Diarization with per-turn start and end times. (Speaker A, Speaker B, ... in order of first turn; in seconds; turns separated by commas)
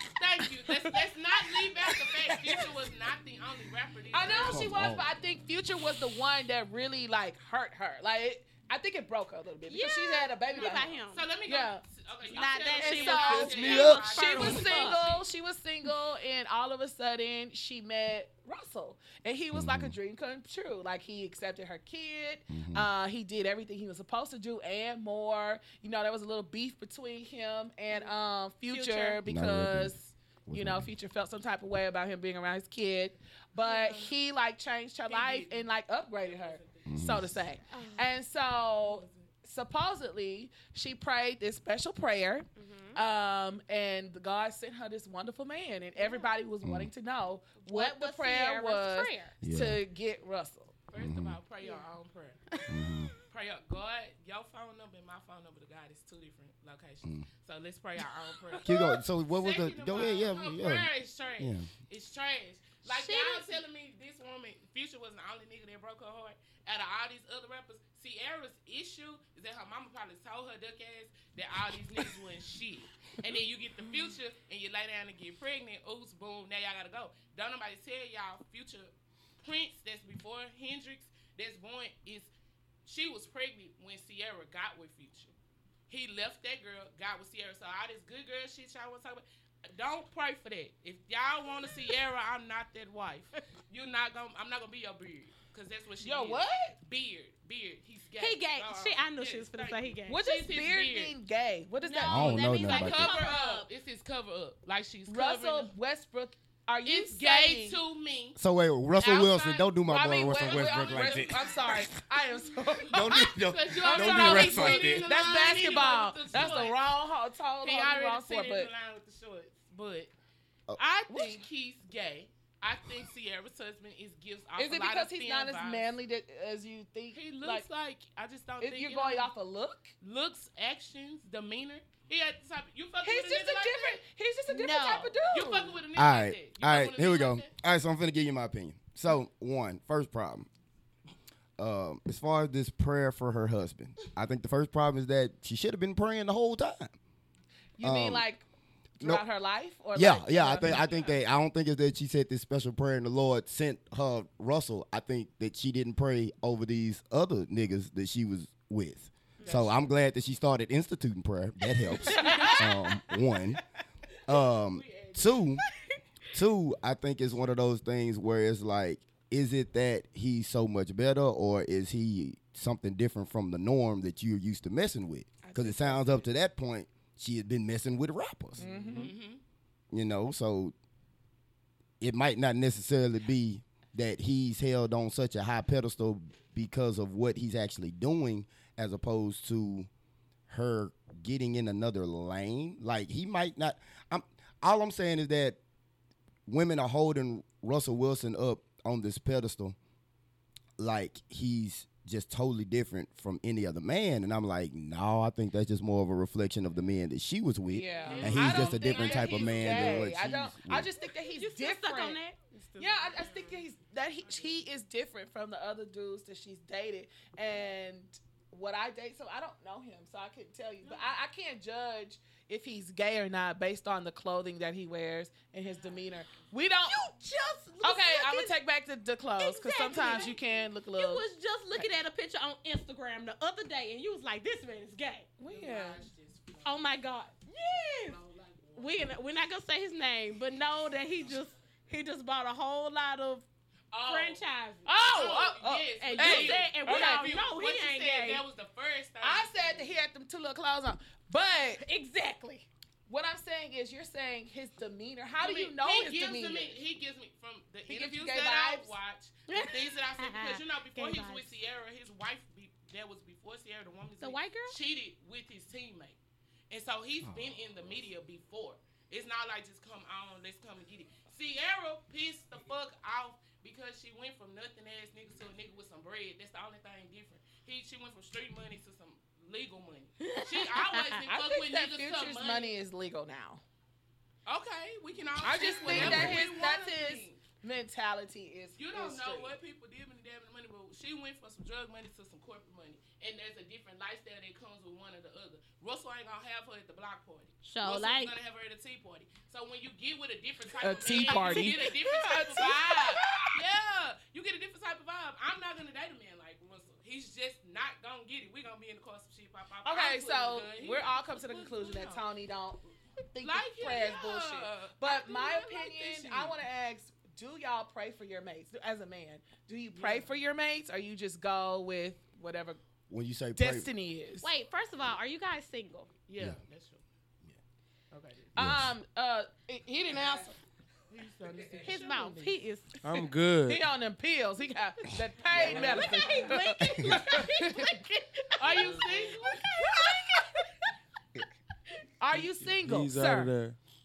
Speaker A: 0.2-4.9, Speaker B: 1.8-2.6, Speaker B: 4.1-10.9, Speaker C: 4.3-5.1, Speaker D: 9.6-11.3, Speaker A: 10.9-15.3, Speaker B: 11.4-11.8, Speaker D: 12.2-15.1, Speaker B: 12.7-50.7, Speaker E: 13.3-14.0, Speaker C: 13.7-14.0, Speaker C: 19.5-19.9, Speaker C: 22.5-22.9, Speaker D: 28.6-29.2, Speaker C: 29.2-29.9, Speaker C: 30.5-30.9, Speaker A: 33.6-34.1, Speaker A: 35.1-37.4, Speaker C: 36.9-37.4, Speaker D: 37.7-38.1, Speaker A: 38.8-39.3, Speaker D: 42.5-43.0, Speaker C: 46.6-46.9, Speaker D: 47.7-49.4, Speaker C: 49.4-49.8, Speaker A: 50.9-52.4, Speaker C: 51.0-51.4, Speaker D: 51.6-51.9, Speaker D: 52.5-53.2, Speaker C: 52.7-53.1, Speaker A: 53.3-82.3, Speaker C: 58.6-61.7, Speaker D: 62.8-63.6, Speaker A: 82.8-85.3, Speaker A: 85.9-101.1, Speaker B: 96.0-96.8, Speaker D: 98.2-100.2, Speaker B: 100.1-103.3, Speaker D: 101.8-103.7, Speaker C: 102.0-103.1, Speaker A: 102.7-105.7, Speaker B: 105.1-107.8, Speaker A: 106.8-108.4, Speaker C: 108.4-111.8, Speaker A: 109.0-109.7, Speaker B: 109.8-118.7, Speaker A: 110.3-111.5, Speaker C: 112.9-115.1, Speaker A: 113.0-116.8, Speaker A: 117.6-120.1, Speaker A: 120.8-126.0, Speaker B: 121.1-121.3, Speaker B: 124.6-127.6, Speaker A: 127.1-129.3, Speaker B: 128.6-129.9, Speaker A: 130.0-134.0, Speaker B: 133.0-135.8, Speaker D: 134.5-135.2, Speaker A: 135.2-137.5, Speaker C: 135.9-140.5, Speaker C: 141.6-146.9, Speaker B: 147.8-148.4, Speaker C: 147.8-148.2, Speaker C: 149.0-149.2, Speaker B: 149.0-150.8, Speaker C: 149.9-163.6, Speaker A: 150.6-151.2, Speaker A: 159.4-159.9, Speaker B: 162.1-162.6, Speaker D: 162.1-162.6, Speaker C: 164.2-165.6, Speaker A: 164.5-165.6, Speaker C: 166.3-178.7, Speaker B: 175.4-176.3, Speaker A: 178.6-179.4, Speaker B: 178.6-179.1, Speaker C: 179.9-180.7, Speaker C: 182.0-189.9, Speaker C: 190.5-195.6, Speaker C: 196.5-199.8, Speaker C: 200.8-210.9, Speaker B: 207.7-212.2, Speaker A: 208.0-210.1, Speaker D: 211.3-213.5, Speaker B: 212.8-227.0, Speaker A: 220.8-221.1, Speaker A: 225.7-226.0, Speaker D: 226.8-228.6, Speaker B: 227.8-231.2, Speaker D: 229.4-230.4, Speaker D: 230.9-235.3, Speaker B: 235.4-236.0, Speaker A: 235.5-236.8, Speaker D: 236.6-238.2, Speaker A: 237.8-239.1, Speaker D: 238.8-243.4, Speaker A: 243.9-244.4, Speaker D: 244.0-245.0, Speaker B: 244.8-247.2, Speaker A: 245.0-249.9, Speaker D: 246.0-248.4, Speaker B: 249.2-251.8, Speaker D: 251.7-252.7, Speaker B: 253.1-256.8, Speaker A: 255.4-266.2, Speaker B: 257.9-258.9, Speaker D: 259.5-261.6, Speaker D: 264.2-264.8, Speaker A: 266.7-282.7, Speaker D: 280.2-281.2, Speaker B: 281.2-283.6, Speaker A: 284.4-287.4, Speaker B: 285.4-289.5, Speaker C: 285.9-286.4, Speaker A: 288.8-312.2, Speaker D: 297.6-298.3, Speaker B: 300.8-303.6, Speaker D: 301.2-302.7, Speaker B: 309.8-322.8, Speaker A: 313.4-316.5, Speaker A: 319.9-320.3, Speaker C: 323.1-323.9, Speaker B: 323.6-324.5, Speaker D: 324.4-326.1, Speaker A: 326.3-327.0, Speaker A: 328.1-328.5, Speaker B: 328.5-330.6, Speaker C: 328.6-328.9, Speaker A: 331.1-332.6, Speaker D: 331.8-333.0, Speaker E: 333.0-333.8, Speaker B: 333.6-339.0, Speaker A: 335.5-336.2, Speaker D: 335.6-340.4, Speaker C: 336.8-337.2, Speaker A: 338.5-339.6, Speaker B: 339.8-340.2, Speaker B: 342.2-343.5, Speaker E: 342.4-343.8